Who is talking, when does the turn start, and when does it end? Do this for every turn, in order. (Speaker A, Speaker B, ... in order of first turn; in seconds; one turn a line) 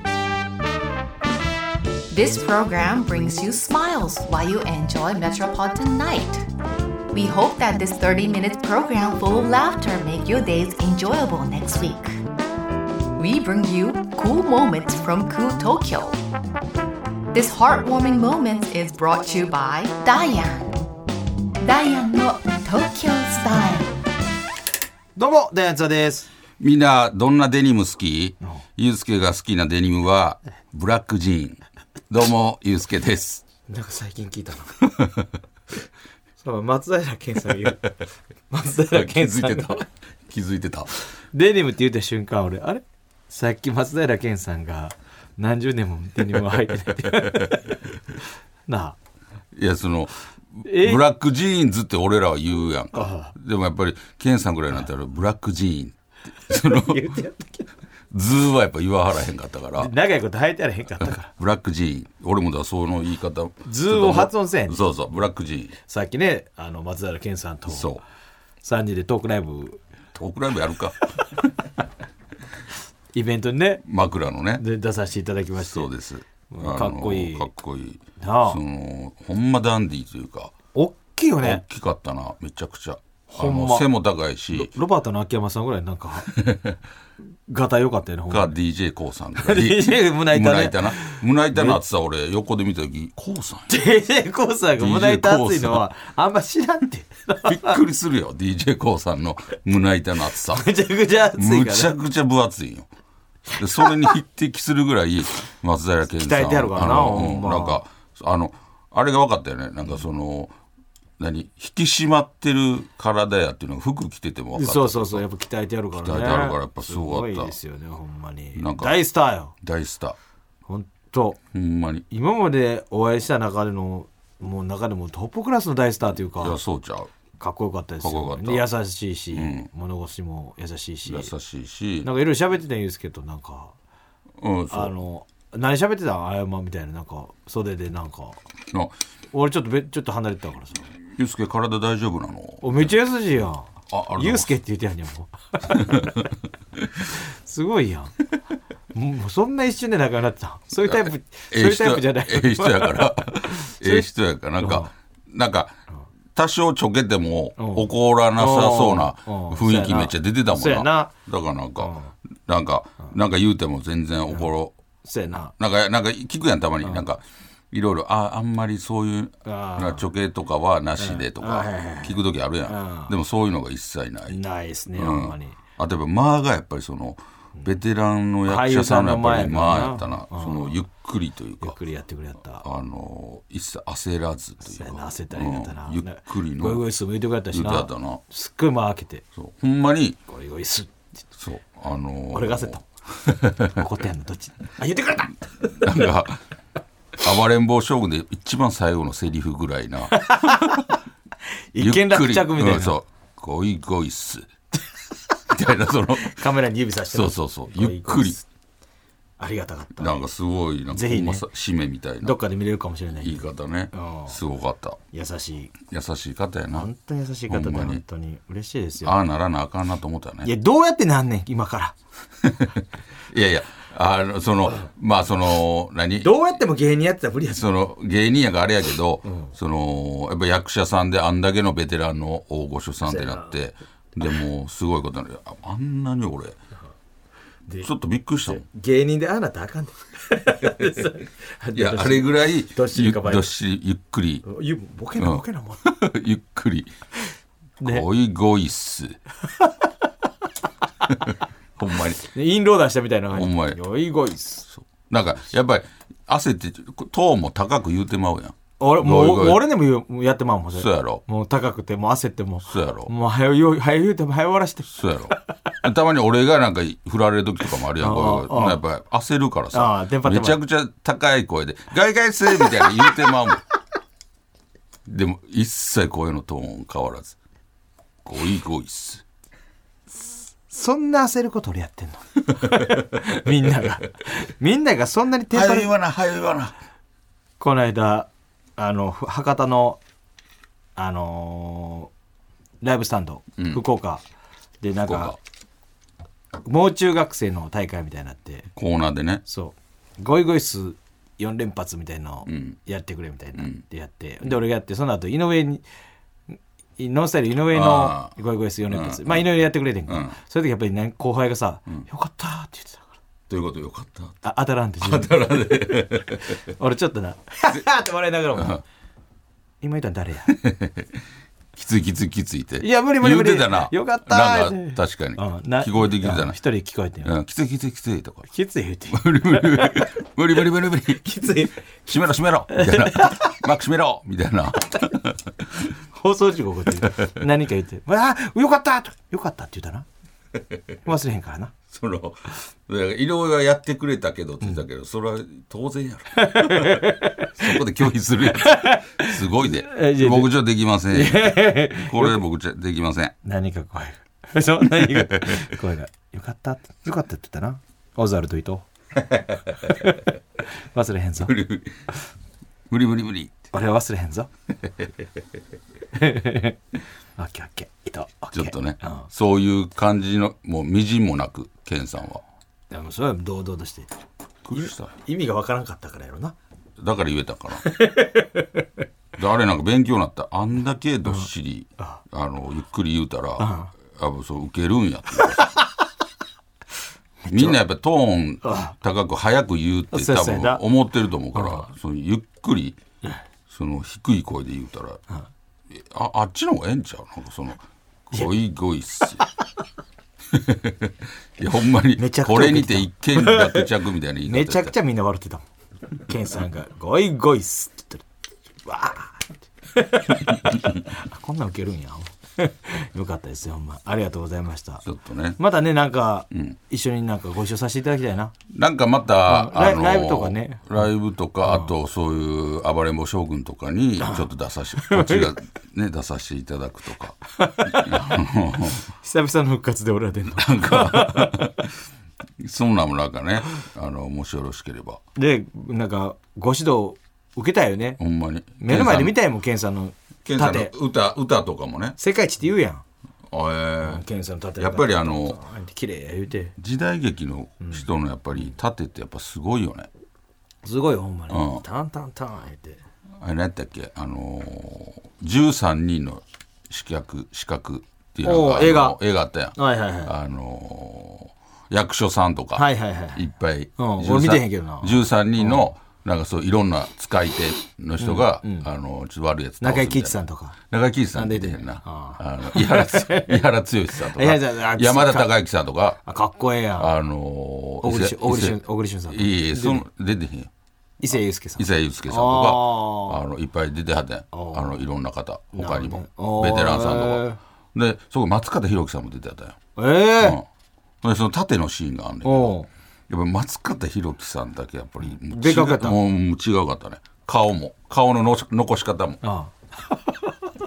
Speaker A: 2.1-6.5
Speaker A: 7.1-12.2
Speaker A: 13.2-16.2
Speaker A: 17.3-20.7
Speaker A: 21.6-23.9
Speaker B: 25.1-26.3
Speaker C: 26.6-33.4
Speaker B: 33.7-34.8
Speaker C: 34.8-35.3
Speaker B: 36.4-37.9
Speaker B: 38.5-39.8
Speaker C: 38.9-40.9
Speaker B: 41.3-47.8
Speaker C: 46.9-47.6
Speaker B: 48.7-49.0
Speaker C: 49.5-57.2
Speaker B: 50.6-51.0
Speaker B: 52.9-53.3
Speaker B: 56.5-57.6
Speaker C: 58.1-59.9
Speaker B: 59.8-61.3
Speaker C: 61.0-65.7
Speaker B: 63.6-64.8
Speaker B: 65.8-68.0
Speaker C: 67.7-68.0
Speaker B: 68.6-69.8
Speaker C: 70.1-71.4
Speaker B: 73.1-73.8
Speaker C: 73.8-74.6
Speaker B: 74.6-75.9
Speaker C: 75.6-80.5
Speaker B: 76.5-77.5
Speaker B: 78.2-78.6
Speaker B: 80.7-81.6
Speaker C: 81.4-84.7
Speaker B: 83.3-83.9
Speaker B: 84.5-86.3
Speaker C: 86.3-86.8
Speaker B: 87.5-88.5
Speaker C: 88.3-93.7
Speaker B: 89.4-91.8
Speaker B: 93.7-97.8
Speaker C: 94.8-95.8
Speaker C: 97.4-100.7
Speaker B: 100.5-101.9
Speaker C: 101.4-102.9
Speaker C: 103.5-110.5
Speaker B: 106.1-107.8
Speaker C: 111.2-115.2
Speaker B: 114.5-119.5
Speaker C: 115.9-117.5
Speaker C: 118.5-119.0
Speaker C: 119.6-120.2
Speaker B: 120.7-121.4
Speaker C: 121.5-122.0
Speaker B: 122.1-126.6
Speaker C: 126.4-127.1
Speaker B: 127.4-131.3
Speaker C: 128.0-128.7
Speaker C: 129.3-129.7
Speaker C: 131.1-132.1
Speaker B: 132.0-133.7
Speaker C: 134.4-134.9
Speaker B: 134.7-138.4
Speaker B: 139.3-140.9
Speaker C: 141.1-142.9
Speaker B: 142.6-146.2
Speaker C: 143.9-144.5
Speaker C: 145.7-146.3
Speaker B: 147.1-148.1
Speaker B: 148.9-154.9
Speaker C: 150.8-155.8
Speaker C: 156.3-161.9
Speaker B: 157.6-161.1
Speaker B: 161.8-162.1
Speaker C: 162.4-164.7
Speaker B: 165.0-165.5
Speaker C: 165.6-174.4
Speaker B: 169.4-170.1
Speaker B: 171.0-173.1
Speaker B: 174.3-175.6
Speaker C: 174.9-181.8
Speaker B: 178.4-180.7
Speaker B: 181.6-182.6
Speaker C: 182.6-186.8
Speaker B: 184.6-189.2
Speaker C: 187.5-188.2
Speaker C: 189.3-190.2
Speaker B: 190.3-190.9
Speaker C: 191.3-193.8
Speaker B: 192.3-192.8
Speaker B: 193.7-196.1
Speaker C: 195.8-196.4
Speaker C: 197.2-200.8
Speaker B: 200.1-200.9
Speaker B: 201.7-202.9
Speaker C: 201.8-204.5
Speaker C: 205.5-206.4
Speaker B: 206.2-208.4
Speaker C: 207.1-208.4
Speaker B: 209.4-210.2
Speaker C: 210.0-212.4
Speaker B: 210.9-211.4
Speaker B: 212.2-214.4
Speaker C: 213.2-215.0
Speaker B: 215.1-215.7
Speaker C: 215.8-216.9
Speaker B: 216.7-219.1
Speaker C: 217.5-218.0
Speaker C: 219.0-220.5
Speaker B: 220.4-221.9
Speaker C: 222.4-226.5
Speaker B: 226.2-227.7
Speaker C: 227.5-236.6
Speaker B: 229.2-229.5
Speaker B: 233.1-233.5
Speaker C: 237.8-238.6
Speaker B: 238.4-243.5
Speaker C: 240.6-241.1
Speaker C: 241.7-244.4
Speaker B: 244.4-245.8
Speaker C: 245.2-246.9
Speaker C: 247.8-249.2
Speaker C: 251.8-252.2
Speaker B: 252.3-254.7
Speaker C: 253.3-253.8
Speaker C: 254.7-259.6
Speaker B: 258.8-265.4
Speaker C: 260.7-261.2
Speaker C: 262.6-263.1
Speaker C: 264.9-273.6
Speaker B: 267.9-268.8
Speaker B: 269.7-270.6
Speaker C: 275.1-277.4
Speaker C: 278.2-279.2
Speaker B: 280.7-285.9
Speaker C: 285.5-286.7
Speaker B: 287.6-290.0
Speaker B: 290.9-292.1
Speaker B: 292.8-294.2
Speaker B: 294.8-295.4
Speaker C: 295.0-295.4
Speaker B: 296.6-298.7
Speaker C: 298.7-299.4
Speaker B: 299.4-305.8
Speaker C: 302.4-302.8
Speaker C: 303.6-303.8
Speaker B: 306.5-313.1
Speaker C: 307.7-308.3
Speaker C: 308.9-309.4
Speaker C: 310.1-310.4
Speaker C: 313.5-314.4
Speaker B: 314.4-318.8
Speaker C: 315.0-316.6
Speaker C: 318.5-318.8
Speaker B: 319.8-320.5
Speaker C: 320.5-321.1
Speaker C: 321.8-326.6
Speaker B: 322.8-327.3
Speaker C: 327.2-328.5
Speaker B: 328.5-330.1
Speaker C: 329.1-331.4
Speaker B: 331.2-331.8
Speaker C: 332.0-335.6
Speaker B: 332.7-333.6
Speaker B: 336.1-340.1
Speaker C: 337.0-337.3
Speaker B: 341.0-341.7
Speaker C: 341.9-353.3
Speaker B: 346.4-347.8
Speaker B: 348.5-350.5
Speaker B: 351.1-352.4
Speaker B: 353.4-358.9
Speaker C: 355.2-355.6
Speaker C: 359.3-359.6
Speaker B: 359.8-360.2
Speaker B: 360.9-361.5
Speaker C: 361.4-362.0
Speaker C: 362.9-363.6
Speaker B: 363.7-364.5
Speaker B: 366.1-366.8
Speaker B: 367.4-369.2
Speaker C: 368.5-372.4
Speaker B: 372.9-374.1
Speaker C: 374.6-375.1
Speaker B: 374.7-376.5
Speaker C: 377.0-377.8
Speaker B: 377.8-378.9
Speaker C: 379.4-385.7
Speaker B: 383.6-383.9
Speaker B: 385.4-385.8
Speaker B: 387.4-387.8
Speaker C: 387.5-393.0
Speaker B: 388.6-388.9
Speaker B: 390.1-390.8
Speaker B: 391.5-391.9
Speaker C: 393.7-395.2
Speaker C: 395.9-399.4
Speaker C: 400.5-404.9
Speaker B: 402.2-403.9
Speaker B: 404.4-405.6
Speaker B: 406.2-408.2
Speaker B: 408.8-415.0
Speaker C: 415.0-415.6
Speaker B: 415.6-418.5
Speaker C: 418.7-429.0
Speaker B: 419.4-420.9
Speaker B: 424.2-425.5
Speaker B: 427.6-428.4
Speaker B: 429.1-431.7
Speaker C: 430.6-431.9
Speaker C: 432.6-435.2
Speaker B: 435.4-438.2
Speaker C: 438.2-439.4
Speaker B: 438.8-440.9
Speaker C: 440.4-442.2
Speaker B: 442.2-443.0
Speaker C: 443.5-444.2
Speaker B: 444.0-446.7
Speaker C: 444.8-445.6
Speaker C: 446.8-450.1
Speaker B: 447.8-448.1
Speaker B: 450.8-453.0
Speaker C: 451.5-451.8
Speaker C: 453.4-470.4
Speaker B: 458.4-459.2
Speaker B: 459.8-460.3
Speaker B: 462.7-465.9
Speaker B: 468.2-468.9
Speaker B: 469.8-470.8
Speaker C: 470.9-476.2
Speaker B: 471.3-475.5
Speaker B: 476.2-477.1
Speaker C: 477.0-478.8
Speaker B: 478.0-480.0
Speaker C: 479.3-480.7
Speaker B: 481.2-483.4
Speaker C: 481.8-487.4
Speaker B: 484.5-485.0
Speaker B: 485.7-487.6
Speaker C: 487.9-489.8
Speaker B: 489.9-490.6
Speaker C: 490.4-490.6
Speaker C: 491.2-492.8
Speaker B: 492.4-492.9
Speaker C: 493.3-499.4
Speaker B: 495.2-496.2
Speaker B: 499.4-500.2